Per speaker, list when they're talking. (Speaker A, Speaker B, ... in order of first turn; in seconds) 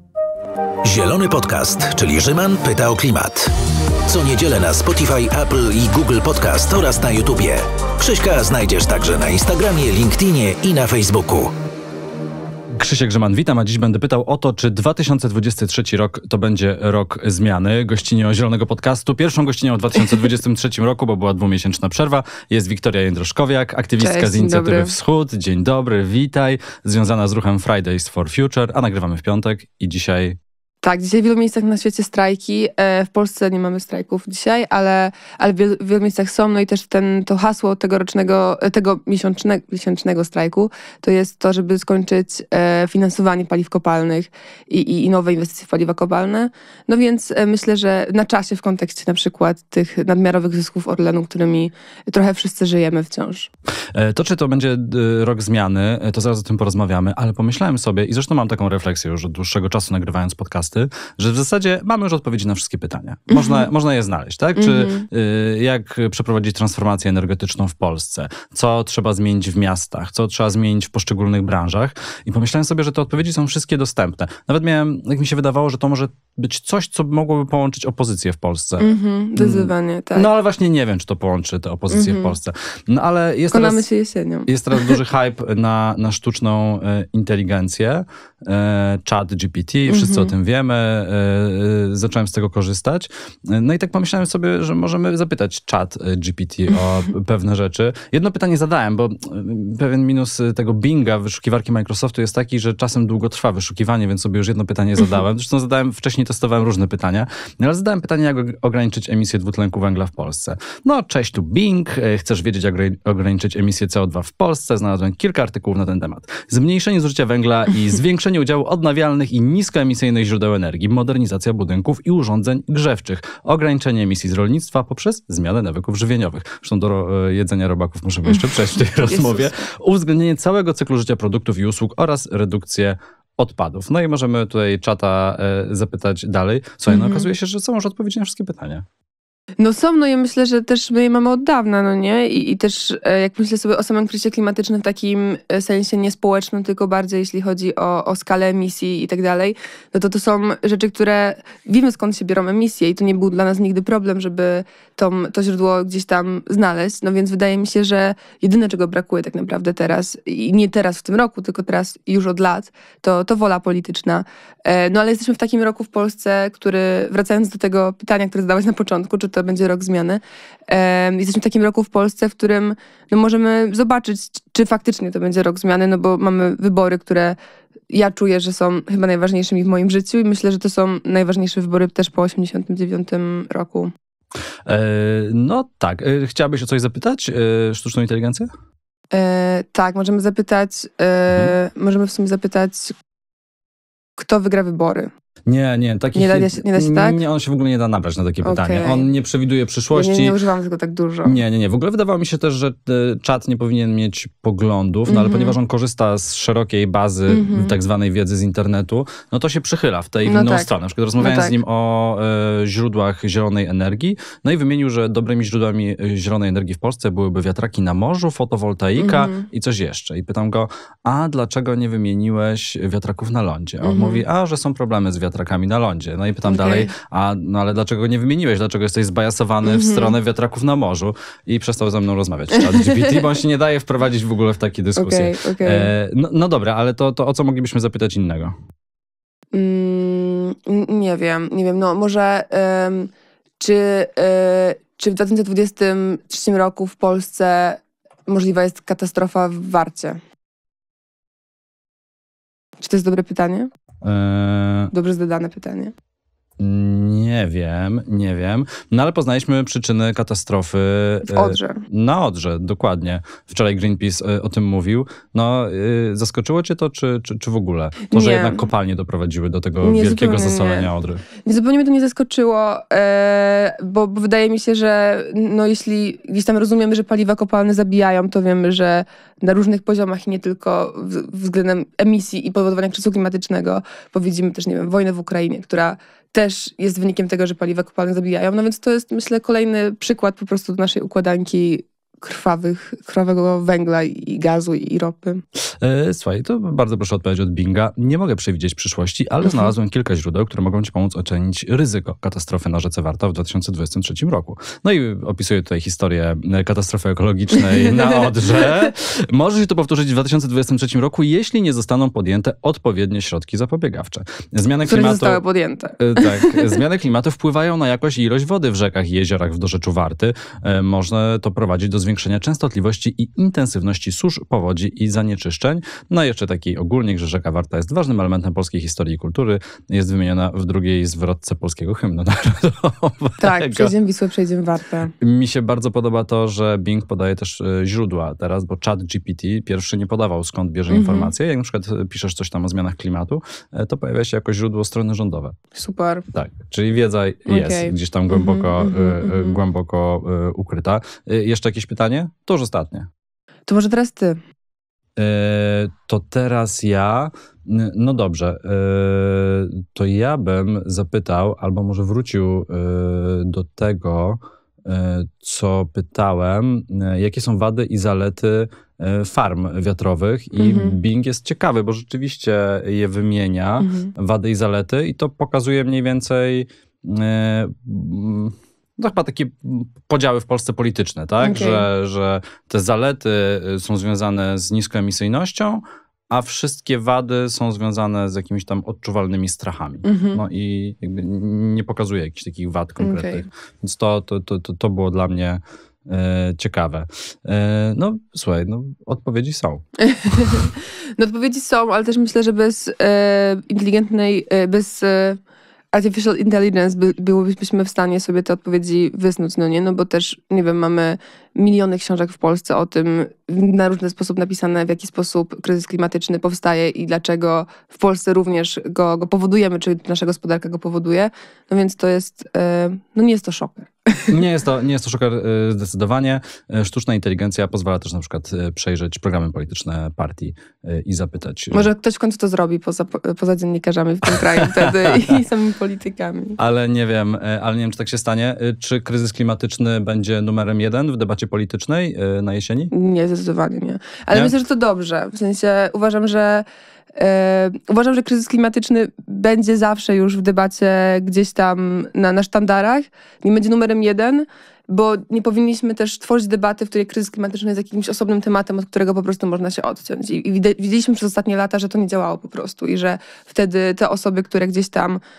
Speaker A: 0.8-3.5, 4.1-11.5
Speaker B: 12.7-30.4, 53.9-83.8, 84.5-138.9, 184.7-188.5, 191.3-191.5, 195.5-200.4, 201.2-238.6, 254.0-254.9, 256.6-271.2, 295.8-315.4, 316.0-333.9, 335.2-345.6, 346.3-353.1, 355.2-400.7, 424.3-431.9, 434.3-435.4, 436.6-442.9
Speaker C: 24.0-24.9, 30.8-53.5, 63.3-63.7, 64.6-65.1, 78.8-80.3, 81.9-82.3, 83.5-85.0, 89.9-90.3, 128.3-129.7, 136.9-137.3, 139.6-177.4, 177.9-183.9, 189.1-192.9, 194.2-195.1, 196.2-197.2, 198.4-199.1, 199.9-201.4, 205.1-205.6, 207.3-207.8, 210.2-211.6, 219.0-219.5, 223.8-224.2, 226.4-226.9, 229.6-230.2, 232.5-233.3, 235.0-235.9, 239.5-250.2, 252.8-253.7, 254.9-255.9, 261.2-261.8, 268.1-268.6, 269.8-270.9, 271.4-295.4, 314.9-316.8, 333.4-335.1, 340.9-341.3, 345.7-346.2, 347.5-349.6, 353.7-354.4, 370.6-371.0, 373.8-374.1, 381.4-381.9, 390.0-390.4, 393.0-393.4, 400.0-405.4, 405.9-424.4, 431.7-436.6, 442.9-465.2